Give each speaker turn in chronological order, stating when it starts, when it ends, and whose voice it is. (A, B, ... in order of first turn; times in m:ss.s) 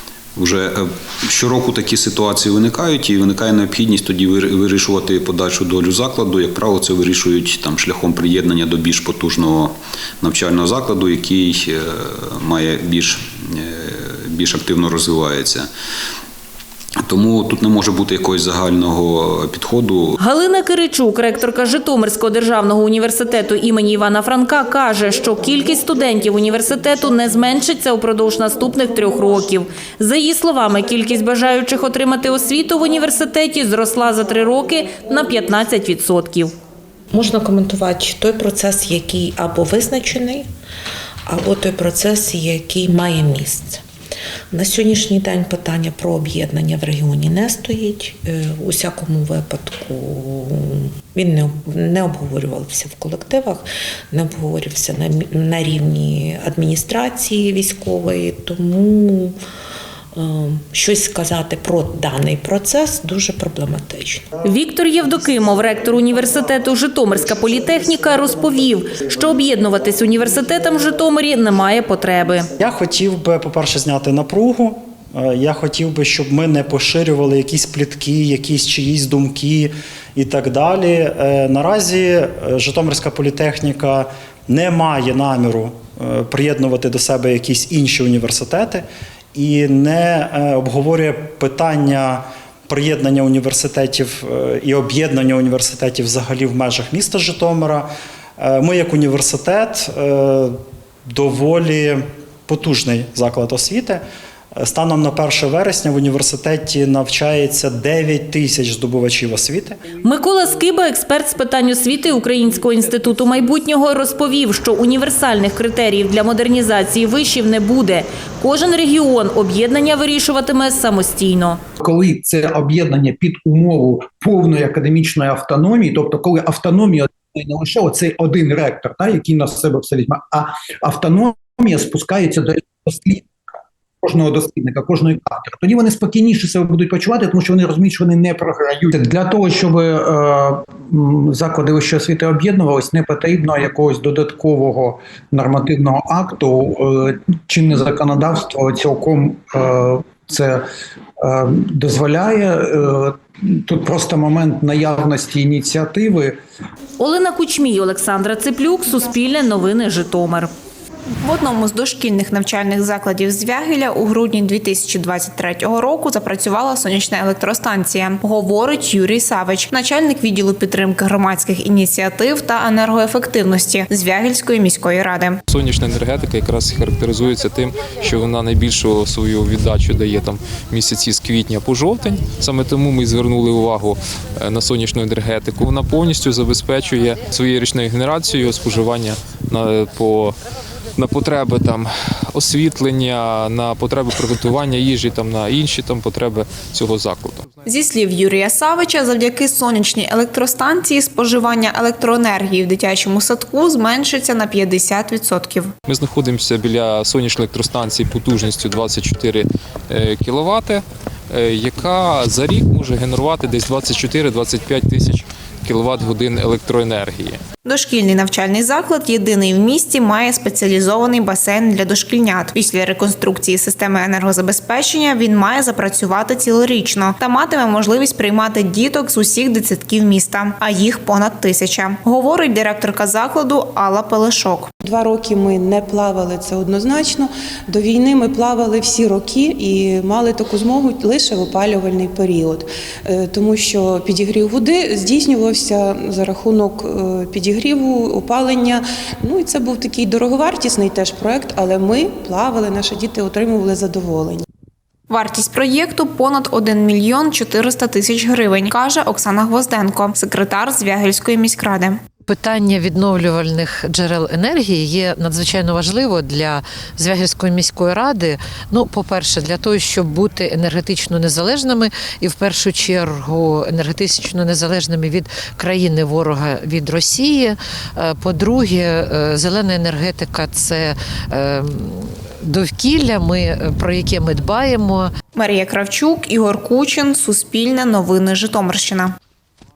0:00.4-0:15.7 A
0:17.0-0:20.2 A
0:20.2-0:36.6 B
0:37.1-0:40.5 C
0:41.3-0:43.8 C
0:44.5-0:59.4 C
1:00.2-1:04.3 C
1:04.4-1:12.5 B
1:12.6-1:40.6 D
1:41.1-1:44.0 D
1:44.6-1:49.8 D
1:50.0-2:01.6 B
2:01.8-2:30.6 E
2:31.2-2:36.4 E
2:37.0-2:40.5 B
2:41.2-2:55.4 F
2:55.5-3:10.4 G
3:11.0-3:17.4 G
3:17.6-3:25.7 F
3:25.9-3:37.4 G
3:37.6-3:54.7 F
3:54.8-4:14.4 H
4:15.1-4:22.0 F
4:22.3-4:45.1 I
4:45.4-4:49.2 F